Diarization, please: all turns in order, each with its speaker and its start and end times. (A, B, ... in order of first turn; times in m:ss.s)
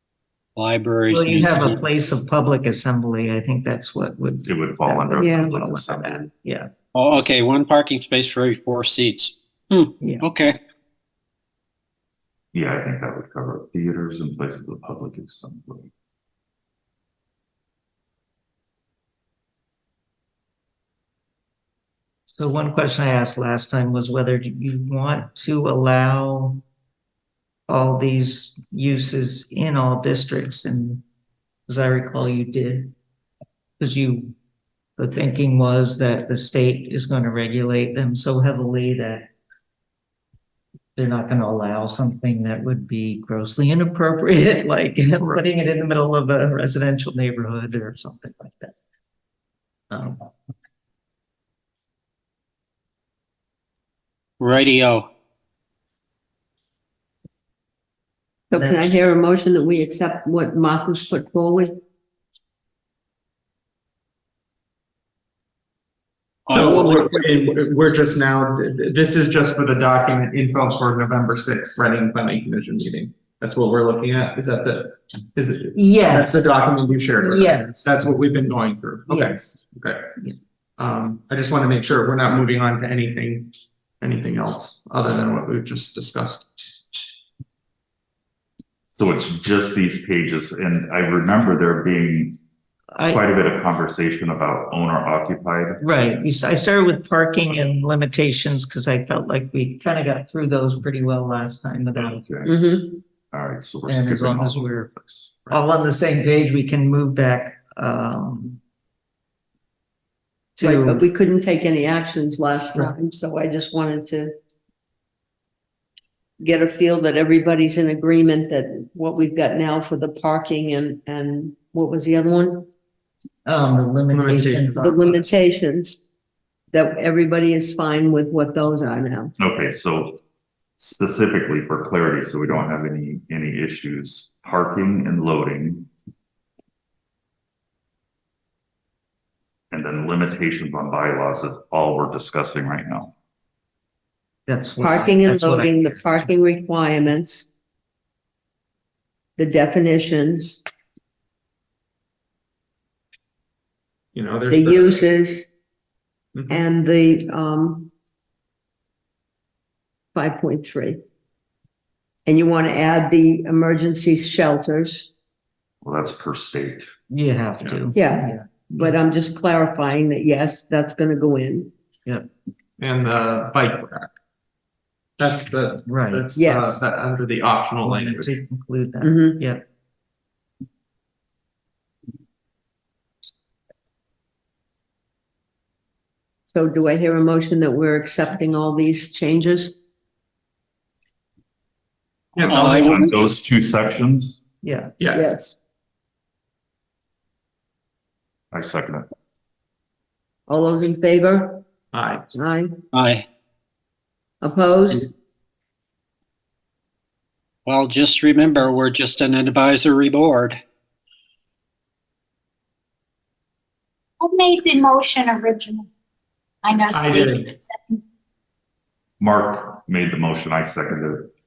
0:00.6-0:01.8 A
0:01.1-0:06.7 B
0:04.4-0:06.2 C
0:05.2-0:05.5 D
0:07.0-0:10.6 A
0:12.5-0:15.9 C
0:22.3-0:26.6 B
0:27.7-0:31.0 B
0:31.7-0:32.9 B
0:33.8-0:34.4 B
0:35.0-0:39.3 B
0:41.0-0:48.8 B
0:49.9-0:50.3 B
0:54.4-0:55.1 A
0:58.5-1:01.8 D
1:06.5-1:07.3 A
1:06.5-1:20.2 E
1:15.8-1:16.5 B
1:17.2-1:18.0 B
1:20.8-1:26.8 E
1:29.0-1:32.4 C
1:33.0-1:33.2 B
1:33.1-1:35.8 C
1:35.8-1:42.2 B
1:42.0-1:42.8 C
1:42.4-1:43.0 D
1:43.3-1:45.6 C
1:43.9-1:44.9 B
1:45.5-1:48.6 B
1:50.6-1:51.1 B
1:50.6-1:54.3 D
1:56.4-2:02.7 D
2:03.5-2:05.4 B
2:04.1-2:04.7 E
2:04.8-2:06.0 D
2:06.7-2:09.3 D
2:09.4-2:10.2 C
2:10.8-2:15.9 C
2:19.7-2:23.1 C
2:24.5-2:26.3 B
2:24.8-2:27.5 D
2:29.4-2:30.6 D
2:34.1-2:35.0 E
2:34.5-2:35.5 D
2:36.4-2:36.6 E
2:36.5-2:37.9 D
2:40.2-2:41.0 D
2:42.3-2:45.1 D
2:45.8-2:46.9 C
2:47.1-2:48.9 B
2:47.6-2:47.9 C
2:47.9-2:51.7 D
2:52.8-2:54.1 E
2:55.2-2:58.4 E
2:55.9-2:56.3 B
2:56.4-2:56.8 D
2:57.8-2:59.6 B
2:59.0-2:59.4 D
3:06.5-3:09.8 D
3:12.3-3:13.3 E
3:12.4-3:14.4 C
3:12.5-3:13.1 A
3:14.6-3:14.9 B
3:15.0-3:15.4 E
3:15.1-3:15.6 D
3:18.5-3:19.1 C
3:20.5-3:21.7 D
3:21.9-3:22.3 E
3:22.3-3:22.7 D
3:22.9-3:23.2 A
3:24.4-3:25.1 D
3:27.7-3:30.6 A
3:34.2-3:35.9 F
3:36.6-3:38.0 F
3:36.9-3:37.6 E
3:39.2-3:41.3 C